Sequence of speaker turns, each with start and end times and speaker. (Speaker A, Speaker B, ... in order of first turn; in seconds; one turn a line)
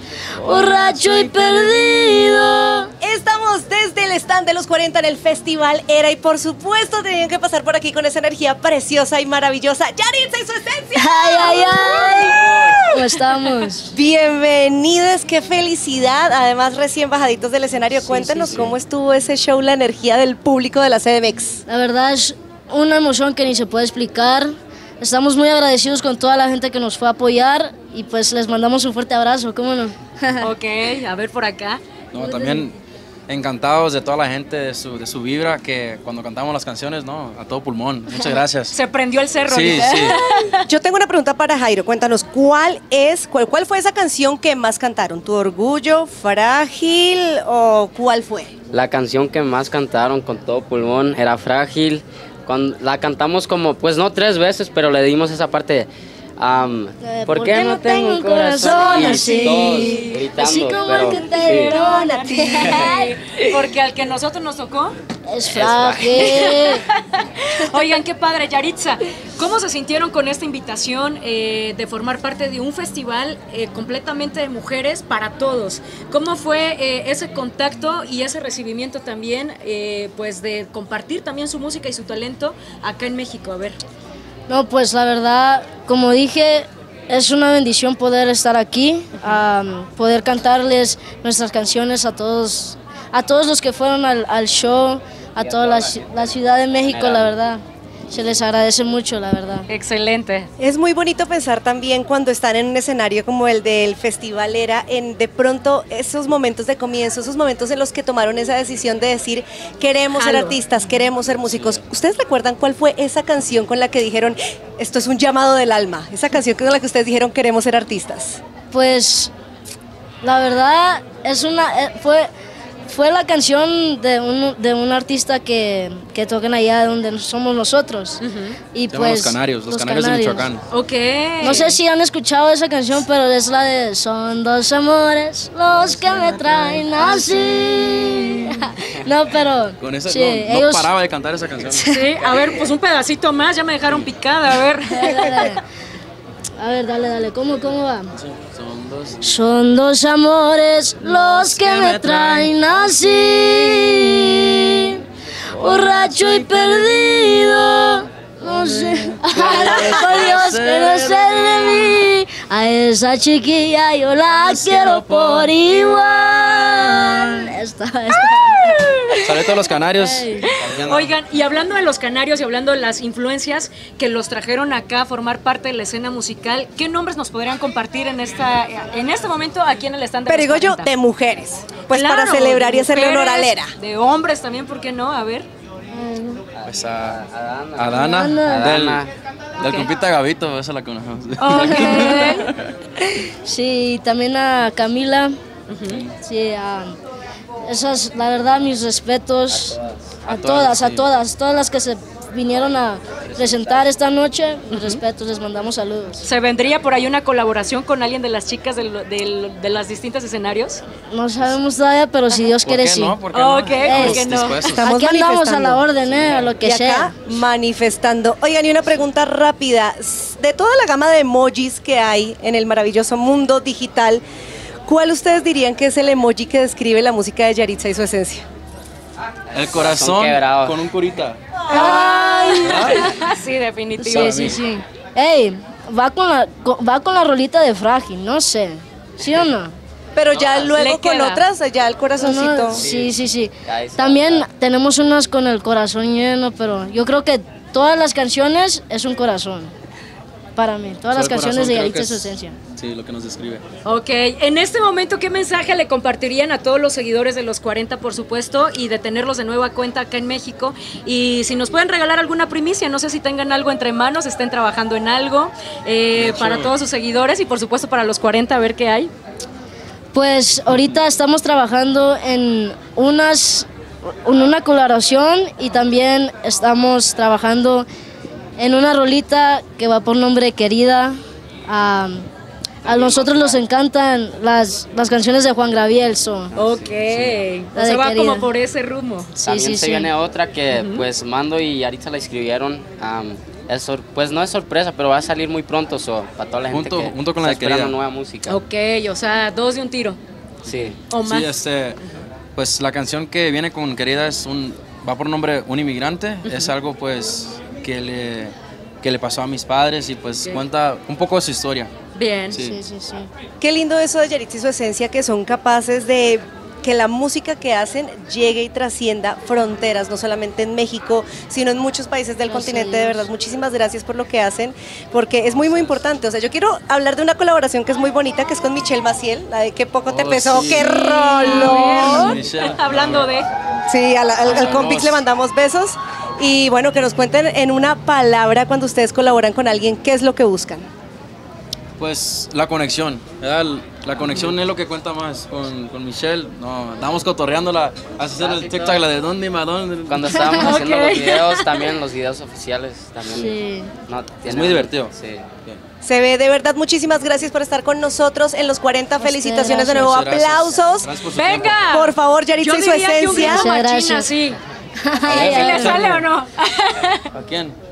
Speaker A: 0.4-1.9
Speaker B: 0.4-2.9
Speaker C: 3.0-13.0
Speaker B: 10.9-13.9
Speaker C: 13.9-21.6
Speaker D: 18.1-18.6
Speaker B: 21.7-30.5
Speaker D: 30.4-31.8
Speaker A: 32.1-32.8
Speaker B: 32.2-32.7
Speaker A: 33.3-38.8
Speaker D: 38.7-40.6
Speaker A: 39.5-40.2
Speaker C: 40.7-48.5
Speaker E: 48.7-61.8
Speaker B: 57.0-63.2
Speaker D: 58.6-60.3
Speaker D: 61.0-65.0
Speaker C: 61.9-62.7
Speaker E: 62.6-62.9
Speaker B: 65.3-66.8
Speaker E: 65.5-66.7
Speaker D: 66.2-83.8
Speaker B: 67.6-68.0
Speaker B: 84.5-99.7
Speaker E: 95.4-96.2
Speaker E: 96.8-97.3
Speaker D: 99.7-100.5
Speaker C: 100.6-118.4
Speaker D: 110.1-110.6
Speaker B: 118.7-119.3
Speaker B: 120.2-122.3
Speaker B: 122.9-128.2
Speaker D: 128.2-128.6
Speaker B: 128.7-130.5
Speaker A: 128.9-130.7
Speaker D: 130.7-131.8
Speaker B: 131.4-140.9
Speaker A: 135.9-136.8
Speaker D: 137.2-138.1
Speaker A: 139.8-142.3
Speaker B: 141.7-142.1
Speaker D: 141.8-145.6
Speaker B: 144.9-145.6
Speaker B: 146.6-148.1
Speaker A: 148.1-149.3
Speaker B: 149.2-155.0
Speaker A: 151.3-152.5
Speaker A: 155.5-157.0
Speaker B: 155.5-170.5
Speaker A: 158.4-162.0
Speaker A: 164.4-167.3
Speaker D: 168.3-169.0
Speaker A: 169.2-171.2
Speaker D: 170.6-180.9
Speaker C: 180.3-183.7
Speaker D: 181.9-185.5
Speaker B: 185.9-186.4
Speaker E: 186.6-189.1
Speaker A: 186.7-187.2
Speaker A: 187.8-189.1
Speaker B: 187.9-188.7
Speaker A: 189.6-192.7
Speaker D: 189.6-189.9
Speaker D: 191.4-192.4
Speaker B: 191.5-192.4
Speaker B: 193.1-195.4
Speaker D: 195.7-196.0
Speaker A: 195.9-196.1
Speaker B: 196.2-197.0
Speaker B: 197.6-206.2
Speaker E: 199.5-201.1
Speaker E: 203.3-203.9
Speaker D: 204.7-205.0
Speaker D: 206.2-210.8
Speaker B: 211.1-213.2
Speaker A: 212.6-215.0
Speaker D: 213.3-214.8
Speaker B: 213.8-214.3
Speaker C: 214.8-215.8
Speaker B: 214.8-217.1
Speaker A: 216.0-216.5
Speaker C: 216.6-224.2
Speaker C: 224.9-228.5
Speaker A: 229.5-231.4
Speaker E: 229.6-230.8
Speaker B: 231.7-233.1
Speaker D: 231.7-234.4
Speaker A: 232.6-233.2
Speaker B: 234.0-239.8
Speaker A: 234.0-234.6
Speaker C: 240.2-242.8
Speaker D: 240.6-241.4
Speaker B: 242.2-249.7
Speaker E: 242.8-244.5
Speaker B: 250.6-252.6
Speaker A: 251.1-253.6
Speaker D: 253.8-269.1
Speaker A: 266.1-266.7
Speaker B: 270.1-273.7
Speaker B: 274.2-277.9
Speaker B: 278.6-282.3
Speaker E: 282.8-283.6
Speaker B: 282.9-286.5
Speaker E: 286.5-287.4
Speaker D: 286.6-289.3
Speaker B: 287.8-288.5
Speaker B: 289.4-290.1
Speaker E: 289.4-298.6
Speaker D: 290.7-291.1
Speaker A: 296.7-297.9
Speaker D: 298.5-300.2
Speaker E: 300.7-301.0
Speaker A: 300.7-302.0
Speaker D: 301.1-302.2
Speaker A: 302.6-311.9
Speaker D: 306.4-306.7
Speaker D: 312.1-312.6
Speaker A: 312.5-312.8
Speaker B: 312.6-313.3
Speaker C: 313.6-332.4
Speaker B: 322.5-323.3
Speaker A: 330.1-330.9
Speaker D: 330.8-333.5
Speaker B: 331.5-332.2
Speaker A: 332.0-333.3
Speaker C: 333.9-340.9
Speaker A: 334.4-335.2
Speaker A: 342.0-350.8
Speaker E: 348.4-349.1
Speaker E: 350.1-355.5
Speaker D: 350.5-351.9
Speaker B: 353.3-353.9
Speaker A: 354.5-355.1
Speaker C: 356.0-361.1
Speaker B: 359.2-360.1
Speaker A: 359.8-361.8
Speaker D: 361.3-364.6
Speaker C: 361.9-363.7
Speaker B: 363.4-364.3
Speaker B: 365.0-366.1
Speaker D: 365.3-367.3
Speaker A: 365.3-366.2
Speaker A: 367.3-367.8